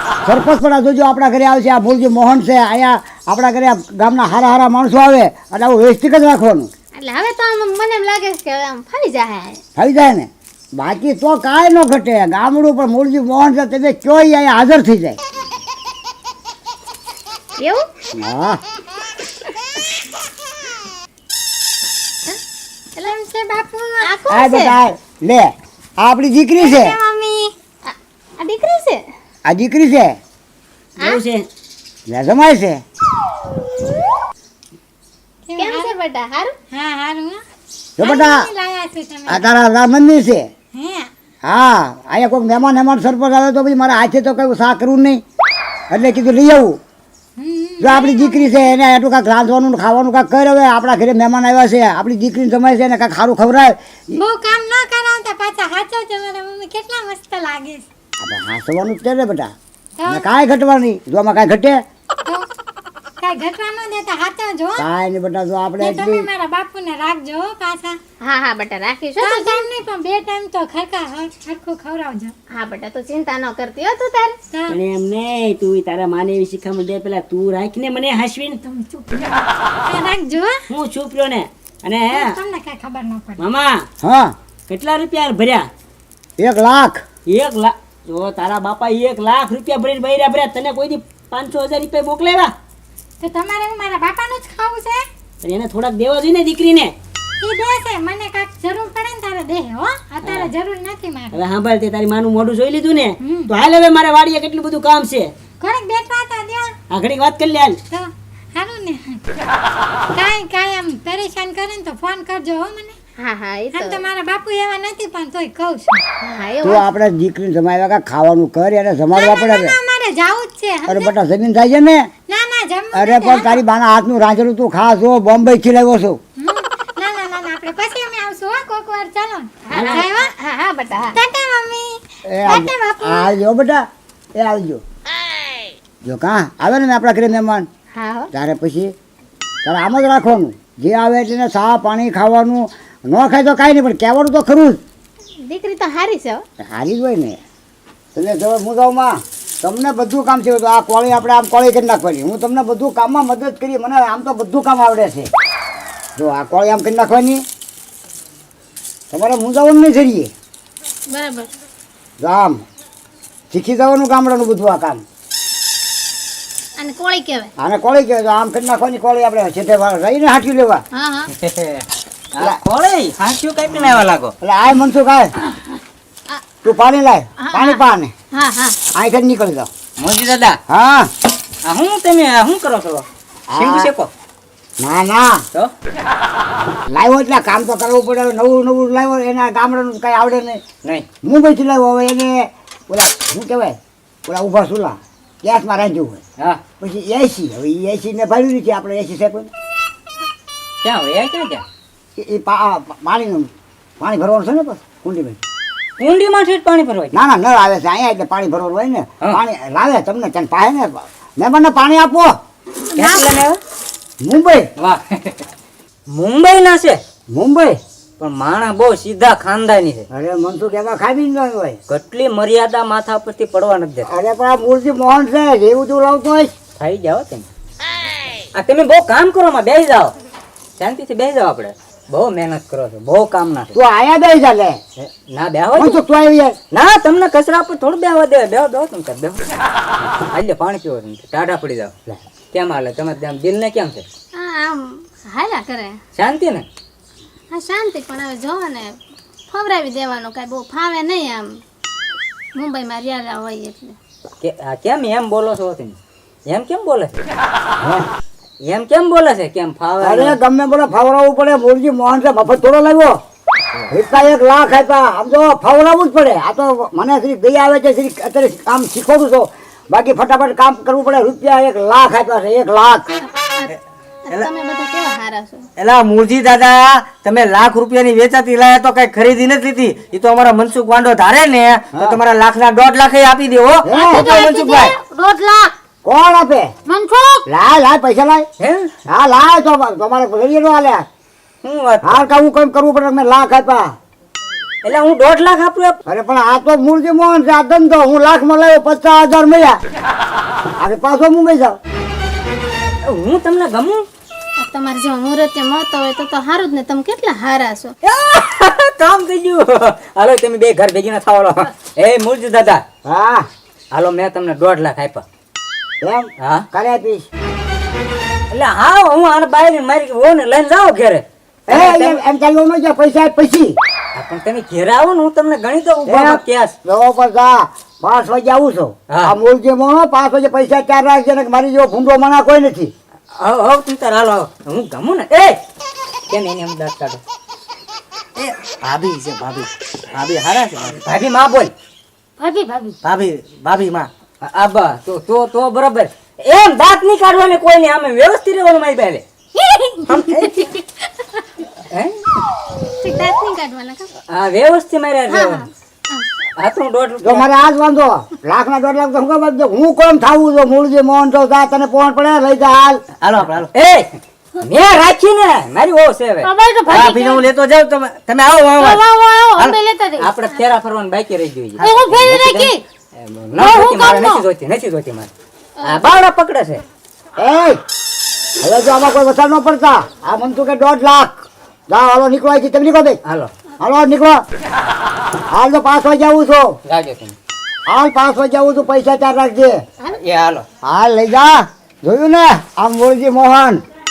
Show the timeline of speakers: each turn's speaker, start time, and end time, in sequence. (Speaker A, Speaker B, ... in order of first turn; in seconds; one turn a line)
Speaker A: 0.2-6.7
Speaker B: 7.0-9.6
Speaker A: 9.8-15.2
Speaker A: 18.2-18.6
Speaker C: 23.0-24.1
Speaker B: 24.0-24.8
Speaker A: 24.3-27.0
Speaker C: 26.6-27.5
Speaker B: 27.9-29.0
Speaker A: 29.4-30.1
Speaker D: 31.0-31.4
Speaker A: 32.1-32.8
Speaker C: 35.5-35.9
Speaker B: 35.6-36.5
Speaker C: 36.7-37.4
Speaker A: 38.0-38.5
Speaker C: 38.0-39.4
Speaker A: 39.3-40.5
Speaker C: 40.7-41.1
Speaker A: 41.4-45.2
Speaker A: 45.9-46.8
Speaker C: 47.4-48.7
Speaker A: 47.8-54.2
Speaker C: 54.1-57.8
Speaker A: 58.2-59.5
Speaker C: 60.0-60.3
Speaker A: 60.0-61.8
Speaker C: 63.2-64.8
Speaker A: 64.8-66.3
Speaker C: 65.8-68.0
Speaker B: 68.2-69.7
Speaker C: 69.2-72.3
Speaker B: 72.5-74.4
Speaker C: 74.5-74.8
Speaker D: 74.7-78.6
Speaker C: 78.6-79.2
Speaker C: 79.8-80.6
Speaker D: 80.7-82.4
Speaker C: 82.1-83.4
Speaker D: 83.4-83.8
Speaker A: 84.0-84.3
Speaker D: 84.7-85.7
Speaker A: 86.4-87.0
Speaker D: 87.3-92.5
Speaker C: 93.2-95.0
Speaker D: 95.4-96.9
Speaker C: 97.4-101.4
Speaker D: 101.3-105.3
Speaker C: 103.2-103.5
Speaker C: 105.6-106.7
Speaker D: 106.9-107.8
Speaker C: 107.9-109.2
Speaker C: 110.1-113.0
Speaker B: 113.2-114.0
Speaker C: 113.7-116.0
Speaker B: 116.2-116.8
Speaker A: 116.6-119.8
Speaker C: 119.1-121.1
Speaker A: 120.9-122.1
Speaker C: 122.3-123.6
Speaker A: 122.9-126.2
Speaker C: 126.4-130.3
Speaker B: 129.7-131.2
Speaker C: 131.1-133.3
Speaker A: 132.2-133.8
Speaker A: 134.3-134.8
Speaker A: 136.0-137.7
Speaker B: 137.9-138.3
Speaker A: 138.3-138.9
Speaker A: 139.6-144.8
Speaker B: 145.4-146.4
Speaker A: 146.6-147.4
Speaker A: 148.1-155.3
Speaker A: 156.2-157.4
Speaker A: 159.1-160.3
Speaker B: 161.1-161.5
Speaker A: 162.2-162.6
Speaker A: 163.5-165.0
Speaker B: 166.8-167.5
Speaker A: 167.6-170.8
Speaker B: 170.9-171.3
Speaker E: 171.4-171.8
Speaker E: 172.3-174.3
Speaker A: 174.4-175.3
Speaker A: 176.6-178.1
Speaker B: 177.4-177.8
Speaker B: 178.3-178.8
Speaker A: 178.9-179.7
Speaker E: 180.0-180.6
Speaker A: 180.7-181.1
Speaker E: 181.6-184.1
Speaker A: 183.5-183.9
Speaker A: 184.8-185.4
Speaker A: 186.9-190.6
Speaker A: 191.2-196.2
Speaker A: 196.8-199.5
Speaker E: 200.8-201.6
Speaker A: 202.2-203.5
Speaker A: 204.0-205.4
Speaker E: 206.0-207.2
Speaker A: 207.1-212.3
Speaker C: 212.9-213.4
Speaker E: 212.9-213.6
Speaker A: 214.2-214.7
Speaker E: 214.8-215.4
Speaker E: 216.1-217.0
Speaker A: 217.3-217.8
Speaker E: 218.2-220.1
Speaker A: 220.1-221.8
Speaker E: 221.9-224.1
Speaker A: 224.1-226.5
Speaker E: 226.8-227.5
Speaker E: 228.5-230.1
Speaker E: 230.8-233.7
Speaker A: 233.7-234.8
Speaker E: 235.0-236.0
Speaker A: 235.8-236.6
Speaker E: 236.7-239.4
Speaker E: 240.3-241.9
Speaker E: 242.5-244.0
Speaker B: 244.3-246.0
Speaker E: 246.2-246.7
Speaker B: 247.5-248.9
Speaker B: 249.5-251.6
Speaker B: 252.5-253.9
Speaker E: 254.4-256.0
Speaker E: 256.5-257.2
Speaker A: 257.8-258.1
Speaker E: 258.6-260.4
Speaker A: 260.0-263.1
Speaker A: 263.9-273.1
Speaker B: 273.3-273.7
Speaker B: 274.3-275.6
Speaker F: 275.8-283.9
Speaker A: 281.9-282.2
Speaker A: 283.8-284.4
Speaker C: 283.9-285.7
Speaker E: 284.3-284.8
Speaker A: 286.0-286.7
Speaker C: 286.9-287.4
Speaker A: 287.5-288.4
Speaker E: 288.6-288.9
Speaker A: 289.1-291.1
Speaker E: 291.6-292.2
Speaker A: 292.0-293.9
Speaker E: 294.8-296.0
Speaker A: 296.1-299.8
Speaker A: 300.8-301.8
Speaker E: 303.1-304.1
Speaker B: 304.6-307.9
Speaker E: 308.0-312.8
Speaker A: 313.1-313.4
Speaker E: 313.9-315.2
Speaker A: 316.0-317.3
Speaker E: 316.4-316.6
Speaker E: 318.5-322.2
Speaker A: 321.7-323.7
Speaker E: 324.1-326.7
Speaker A: 326.1-332.9
Speaker E: 333.4-335.6
Speaker E: 336.3-337.2
Speaker E: 338.4-341.7
Speaker F: 338.8-339.6
Speaker C: 342.4-343.0
Speaker F: 343.1-344.1
Speaker E: 343.4-349.2
Speaker B: 349.5-350.9
Speaker E: 350.1-350.6
Speaker E: 351.9-352.2
Speaker B: 353.0-354.1
Speaker E: 354.3-355.6
Speaker B: 355.3-356.3
Speaker E: 356.6-357.5
Speaker A: 357.2-363.0
Speaker E: 363.2-364.1
Speaker F: 363.2-363.6
Speaker E: 364.6-369.0
Speaker C: 366.4-367.4
Speaker F: 368.0-368.7
Speaker C: 368.8-370.3
Speaker E: 369.6-375.3
Speaker C: 371.8-372.8
Speaker C: 373.6-374.4
Speaker E: 375.8-376.8
Speaker A: 377.4-377.8
Speaker A: 378.6-383.2
Speaker E: 383.2-383.5
Speaker A: 383.8-384.4
Speaker A: 385.5-386.7
Speaker E: 386.9-387.3
Speaker A: 387.9-389.8
Speaker E: 390.1-390.6
Speaker A: 390.8-393.8